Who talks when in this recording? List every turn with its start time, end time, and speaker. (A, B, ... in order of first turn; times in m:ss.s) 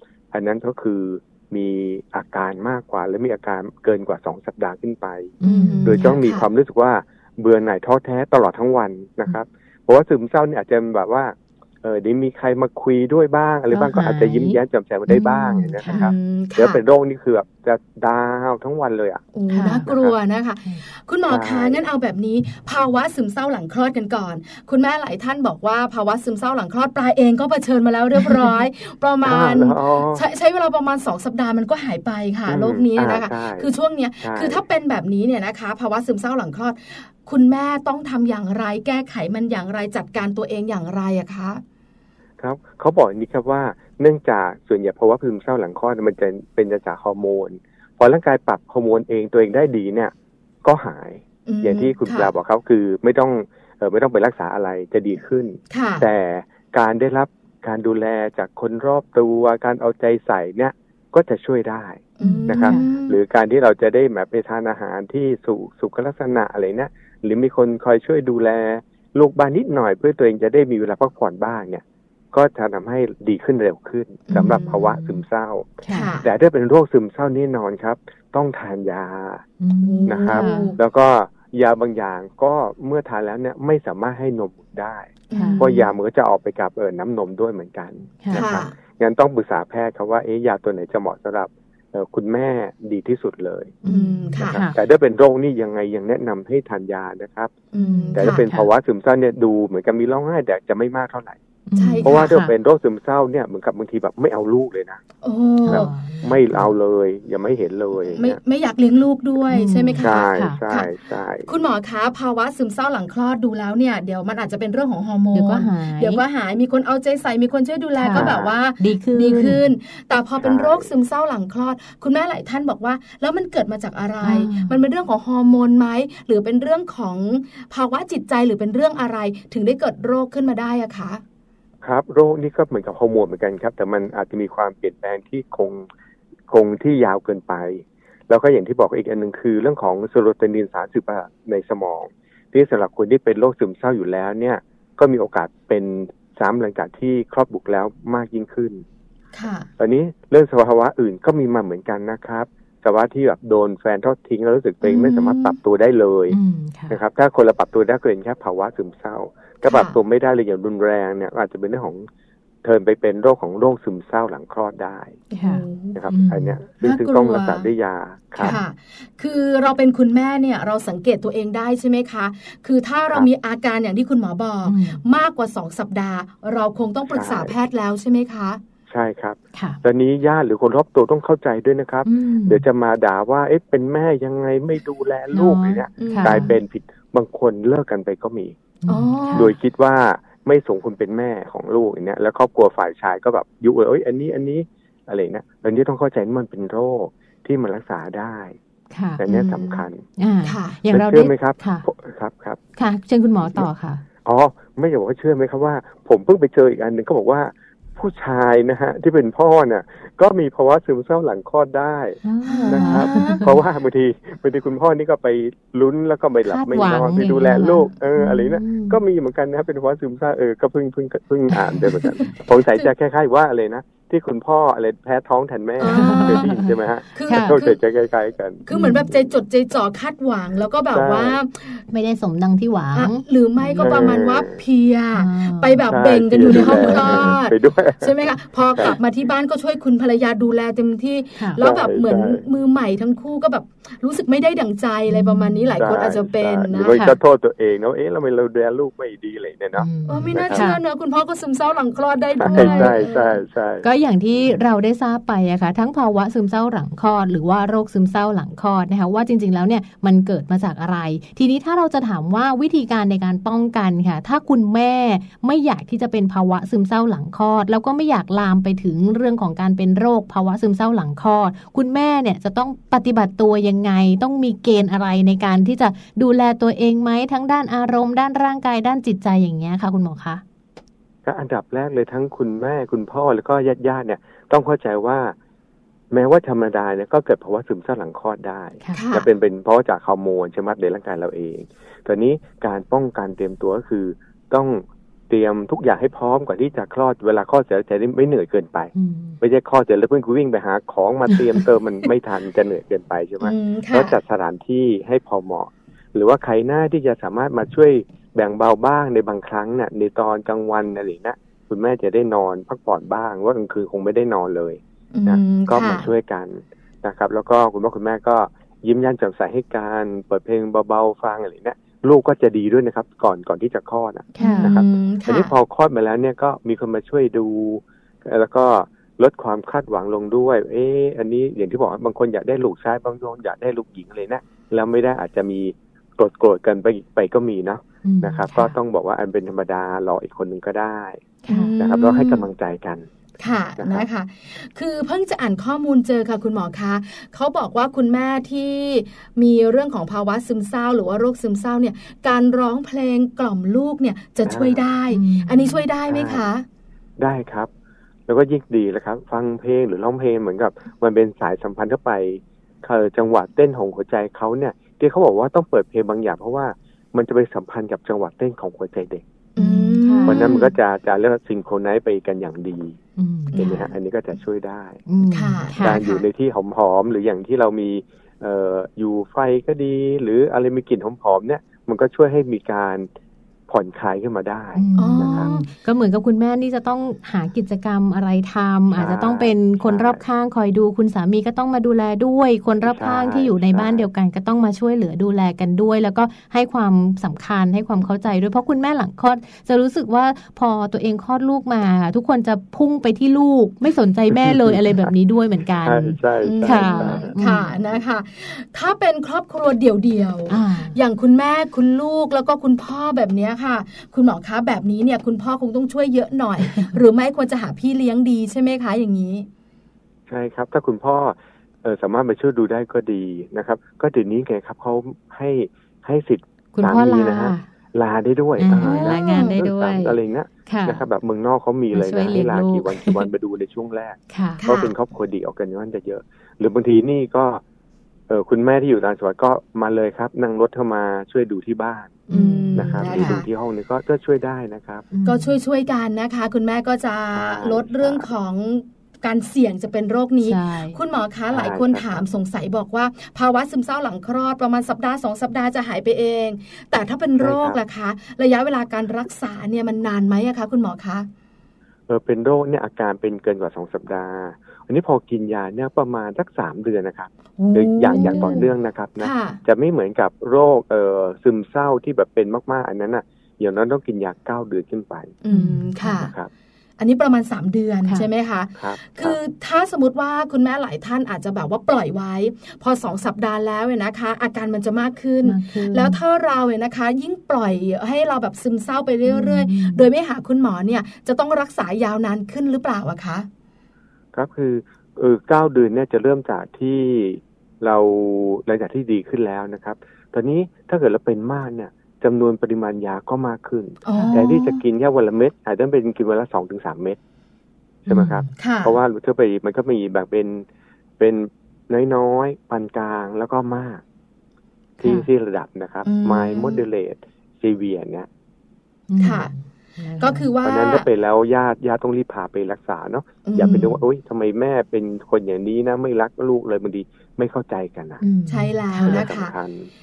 0:00.3-0:19.2 A
0:05.4-0:06.2 B
0:05.4-0:06.5 C
0:13.7-0:16.1 B
0:15.9-0:16.8 C
0:19.3-0:41.6 C
0:19.5-0:19.9 B
0:19.8-0:20.1 A
0:21.3-0:21.8 A
0:28.2-0:28.5 B
0:29.2-0:30.2 A
0:32.5-0:33.7 A
0:34.2-0:34.6 A
0:42.4-0:50.1 A
0:50.6-1:19.4 A
0:51.5-0:52.3 C
0:55.7-0:56.1 C
1:02.2-1:03.2 C
1:02.2-1:02.9 B
1:14.3-1:14.7 C
1:14.3-1:15.2 B
1:15.8-1:16.1 B
1:15.9-1:16.3 C
1:19.6-1:20.7 B
1:19.8-1:20.8 C
1:20.0-1:33.8 A
1:25.3-1:25.9 C
1:25.3-1:25.7 B
1:28.2-1:28.5 B
1:28.3-1:28.7 C
1:33.8-1:34.8 B
1:33.8-1:34.6 C
1:34.4-1:37.5 A
1:37.7-1:38.4 C
1:37.8-1:38.7 B
1:38.1-1:41.4 A
1:41.7-1:42.5 B
1:41.8-1:42.3 C
1:42.0-1:45.0 A
1:45.2-1:45.9 C
1:45.6-1:46.7 B
1:45.7-1:48.4 A
1:48.1-1:50.9 C
1:49.5-1:50.6 B
1:50.0-1:51.5 A
1:51.5-2:11.2 C
1:55.3-1:56.2 B
1:58.0-1:59.6 B
1:58.2-1:58.5 A
2:00.4-2:00.9 A
2:04.2-2:04.8 B
2:11.8-2:15.9 A
2:16.5-2:28.8 A
2:29.3-2:29.7 C
2:29.8-2:36.4 A
2:34.8-2:35.6 C
2:36.3-2:37.0 B
2:36.9-2:42.1 A
2:39.6-2:40.0 C
2:42.6-2:45.2 A
2:45.3-2:46.0 C
2:45.4-2:46.6 B
2:45.9-2:48.6 A
2:46.8-2:47.7 C
2:48.4-2:58.6 C
2:54.6-2:55.0 B
2:57.1-2:57.5 A
2:58.9-3:08.5 A
2:59.5-2:59.8 B
3:02.0-3:02.6 B
3:05.3-3:06.5 B
3:06.0-3:06.5 C
3:08.8-3:09.5 B
3:08.9-3:09.5 C
3:09.3-3:18.6 A
3:18.9-3:21.8 B
3:19.2-3:20.0 A
3:19.3-3:19.7 C
3:20.4-3:20.8 C
3:20.9-3:22.6 A
3:22.8-3:24.0 B
3:24.2-3:48.7 A
3:32.2-3:33.5 B
3:32.4-3:33.5 C
3:36.5-3:39.0 B
3:41.5-3:42.1 B
3:45.8-3:46.5 C
3:45.8-3:46.7 B
3:47.1-3:47.8 C
3:47.3-3:47.6 B
3:48.6-3:51.8 C
3:48.7-3:49.1 B
3:50.9-3:51.4 A
3:51.9-3:54.2 B
3:52.9-4:07.0 C
3:53.8-3:54.6 A
3:55.1-3:55.8 B
3:55.9-3:59.0 A
3:56.4-3:57.4 B
4:01.4-4:01.6 B
4:01.6-4:02.4 A
4:05.1-4:05.7 B
4:05.8-4:10.7 A
4:09.8-4:10.8 B
4:10.1-4:13.4 C
4:12.4-4:13.8 A
4:12.4-4:13.0 B
4:13.8-4:40.4 B
4:41.2-4:45.3 A
4:46.1-5:41.2 A
4:48.9-4:49.3 C
4:58.9-4:59.4 B
5:03.4-5:04.2 C
5:15.1-5:16.1 C
5:24.3-5:24.7 B
5:24.4-5:25.5 C
5:38.0-5:38.8 B
5:41.4-5:41.7 B
5:41.5-5:42.5 C
5:41.8-5:43.1 A
5:43.4-5:56.6 C
5:43.8-5:44.0 A
5:54.4-5:54.8 A
5:55.1-5:55.8 B
5:56.1-5:56.4 A
5:57.2-5:57.7 A
5:58.3-6:09.2 A
6:09.6-6:10.7 C
6:09.6-6:10.5 B
6:10.2-6:13.0 A
6:13.2-6:13.6 B
6:13.5-6:13.9 C
6:13.6-6:15.0 A
6:15.1-6:16.0 B
6:15.3-6:16.2 C
6:15.8-6:23.1 A
6:23.7-6:25.5 A
6:24.8-6:47.7 B
6:25.0-6:25.6 C
6:28.9-6:30.2 A
6:32.8-6:34.0 A
6:44.3-6:45.1 A
6:45.8-6:47.4 A
6:46.4-6:59.5 C
6:50.5-6:51.0 B
7:00.3-7:17.6 A
7:06.7-7:07.6 B
7:08.6-7:11.0 B
7:08.8-7:09.5 C
7:11.9-7:13.3 B
7:14.3-7:14.6 B
7:14.6-7:14.9 C
7:18.3-7:22.2 A
7:22.3-7:23.4 B
7:22.3-7:23.4 C
7:22.8-7:25.1 A
7:25.1-7:25.5 B
7:25.2-7:41.3 C
7:27.4-7:28.3 A
7:30.4-7:31.0 B
7:31.5-7:32.0 A
7:37.4-7:37.8 A
7:42.1-7:55.3 A
7:47.6-7:48.7 B
7:48.0-7:48.6 C
7:49.2-7:49.6 C
7:55.4-7:56.3 C
7:55.5-7:56.1 B
7:56.1-7:56.5 A
7:57.0-8:13.5 C
7:58.8-7:59.4 A
8:05.4-8:06.2 B
8:09.2-8:10.1 B
8:14.3-8:27.2 A
8:24.0-8:24.7 C
8:24.1-8:24.8 B
8:28.1-8:28.5 B
8:28.1-8:30.6 A
8:28.6-8:28.9 C
8:31.2-8:34.0 A
8:35.0-8:35.3 B
8:35.0-8:38.3 A
8:36.0-8:36.8 C
8:39.1-8:40.5 B
8:39.2-8:39.5 C
8:40.2-8:41.1 C
8:40.6-8:48.2 A
8:43.4-8:44.0 C
8:48.2-8:49.2 B
8:48.5-8:49.5 C
8:49.0-8:49.9 A